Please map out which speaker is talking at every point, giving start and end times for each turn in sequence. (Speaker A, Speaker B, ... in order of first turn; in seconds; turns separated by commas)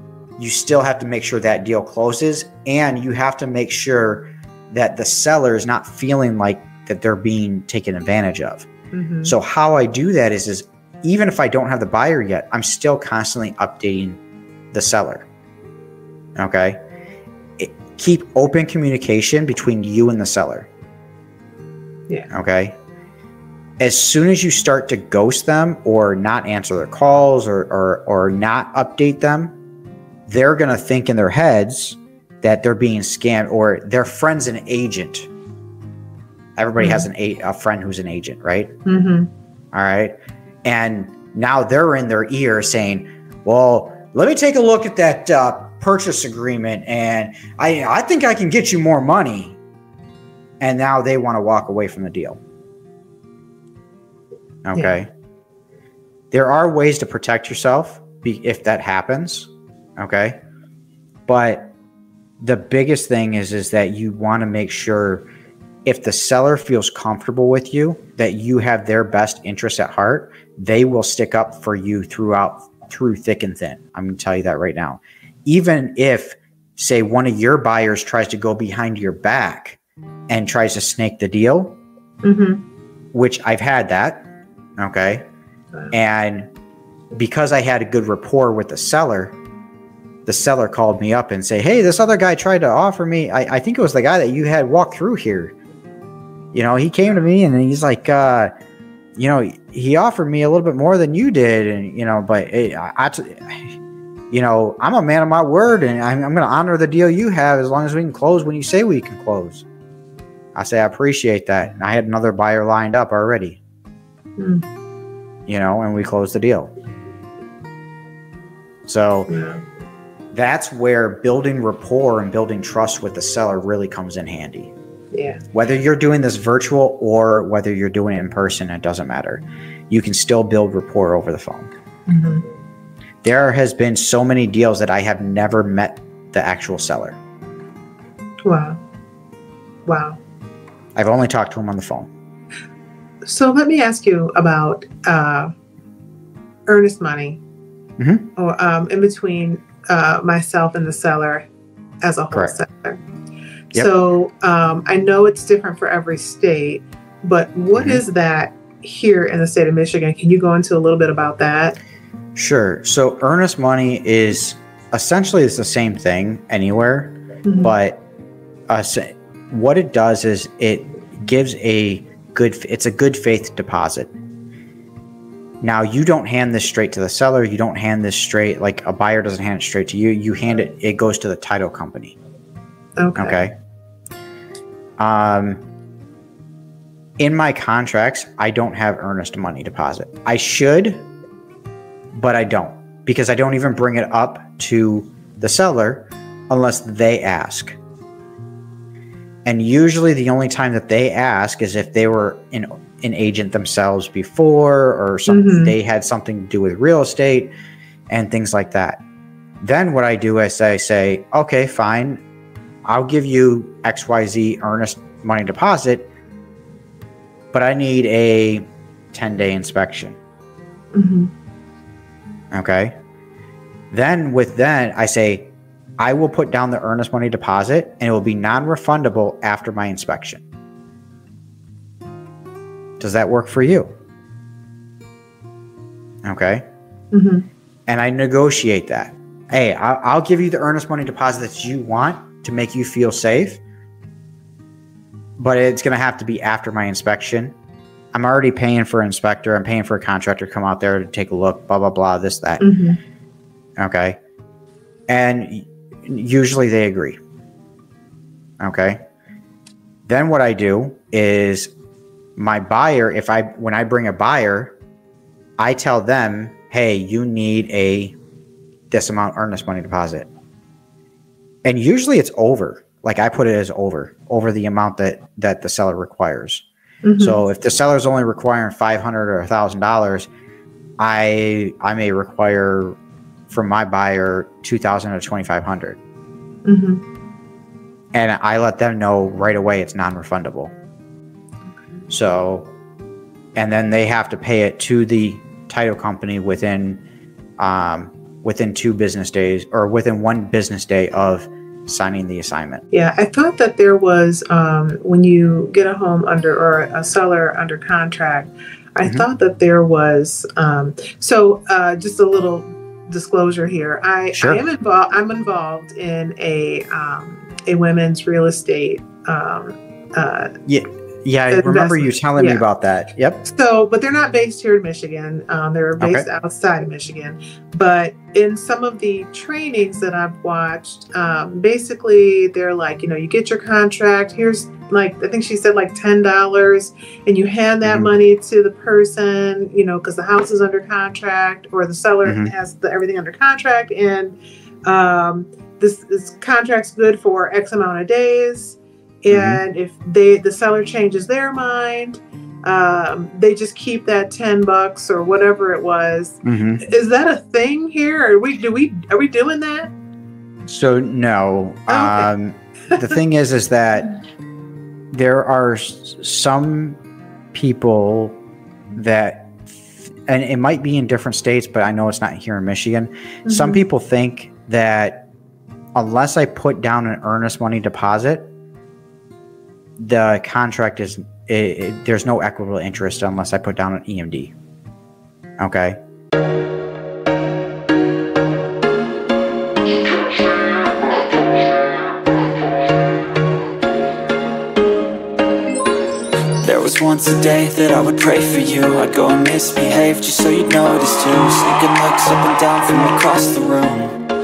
Speaker A: 0.4-8.7, Speaker B: 8.9-9.3, Speaker A: 9.2-14.2, Speaker A: 14.7-15.3, Speaker A: 16.4-16.8, Speaker A: 17.6-20.7, Speaker A: 22.3-22.8, Speaker A: 23.8-29.6, Speaker A: 30.3-35.3, Speaker A: 36.6-38.8, Speaker B: 36.8-37.1, Speaker B: 38.9-39.3, Speaker A: 39.7-49.6, Speaker A: 50.6-52.4, Speaker A: 54.6-55.1, Speaker A: 56.3-60.4, Speaker A: 61.3-61.7, Speaker A: 62.4-65.3, Speaker A: 65.9-79.8, Speaker A: 80.3-81.8, Speaker B: 82.2-82.6, Speaker A: 83.1-85.2, Speaker A: 85.9-86.5, Speaker A: 87.1-89.3, Speaker A: 90.3-95.5, Speaker A: 96.5-98.5, Speaker A: 99.2-103.6, Speaker A: 104.3-109.7, Speaker A: 110.5-113.6, Speaker B: 114.4-114.7, Speaker A: 115.5-116.7, Speaker A: 118.9-119.3, Speaker B: 119.3-119.6, Speaker A: 120.3-124.7, Speaker B: 125.1-125.4, Speaker A: 125.5-131.7, Speaker B: 132.1-132.4, Speaker A: 133.2-137.2, Speaker B: 138.4-138.8, Speaker B: 139.9-140.2, Speaker A: 141.0-142.1, Speaker B: 143.2-145.5, Speaker B: 146.7-147.4, Speaker A: 148.0-148.3, Speaker B: 148.4-151.5, Speaker B: 152.0-153.0, Speaker B: 153.7-161.8, Speaker A: 157.8-158.0, Speaker A: 162.4-168.0, Speaker B: 167.4-167.8, Speaker A: 168.7-174.1, Speaker A: 175.6-182.2, Speaker B: 183.0-183.4, Speaker A: 183.2-183.5, Speaker A: 185.0-185.6, Speaker A: 187.2-191.1, Speaker A: 192.1-197.8, Speaker A: 199.4-207.5, Speaker B: 205.3-205.7, Speaker A: 208.1-209.0, Speaker A: 209.6-212.2, Speaker A: 212.9-216.1, Speaker A: 217.5-220.2, Speaker B: 220.9-221.3, Speaker A: 222.5-222.9, Speaker A: 223.9-230.4, Speaker A: 233.0-233.9, Speaker A: 236.2-236.6, Speaker B: 237.1-237.5, Speaker A: 237.9-243.6, Speaker A: 245.4-247.6, Speaker A: 248.1-252.7, Speaker B: 252.6-253.0, Speaker A: 253.8-254.2, Speaker A: 255.1-257.2, Speaker A: 258.6-259.0, Speaker A: 260.1-261.7, Speaker A: 262.4-264.8, Speaker A: 265.6-268.2, Speaker A: 268.9-270.3, Speaker A: 271.6-276.6, Speaker B: 277.0-277.4, Speaker A: 277.2-280.3, Speaker A: 281.0-283.0, Speaker A: 283.5-286.0, Speaker B: 286.6-287.0, Speaker A: 288.1-290.8, Speaker A: 292.1-292.7, Speaker A: 293.6-297.0, Speaker A: 297.6-302.8, Speaker B: 302.9-320.5, Speaker A: 314.4-314.6, Speaker A: 320.7-323.4, Speaker B: 321.5-322.6, Speaker B: 323.4-359.9, Speaker A: 326.0-326.3, Speaker A: 337.8-338.1, Speaker A: 342.2-342.5, Speaker A: 349.3-349.6, Speaker A: 356.4-356.8, Speaker A: 360.7-364.1, Speaker B: 361.9-362.3, Speaker A: 365.1-367.0, Speaker A: 367.5-368.4, Speaker A: 368.9-375.3, Speaker B: 373.5-373.8, Speaker A: 375.9-378.5, Speaker A: 380.0-384.5, Speaker A: 385.6-386.0, Speaker C: 396.6-404.2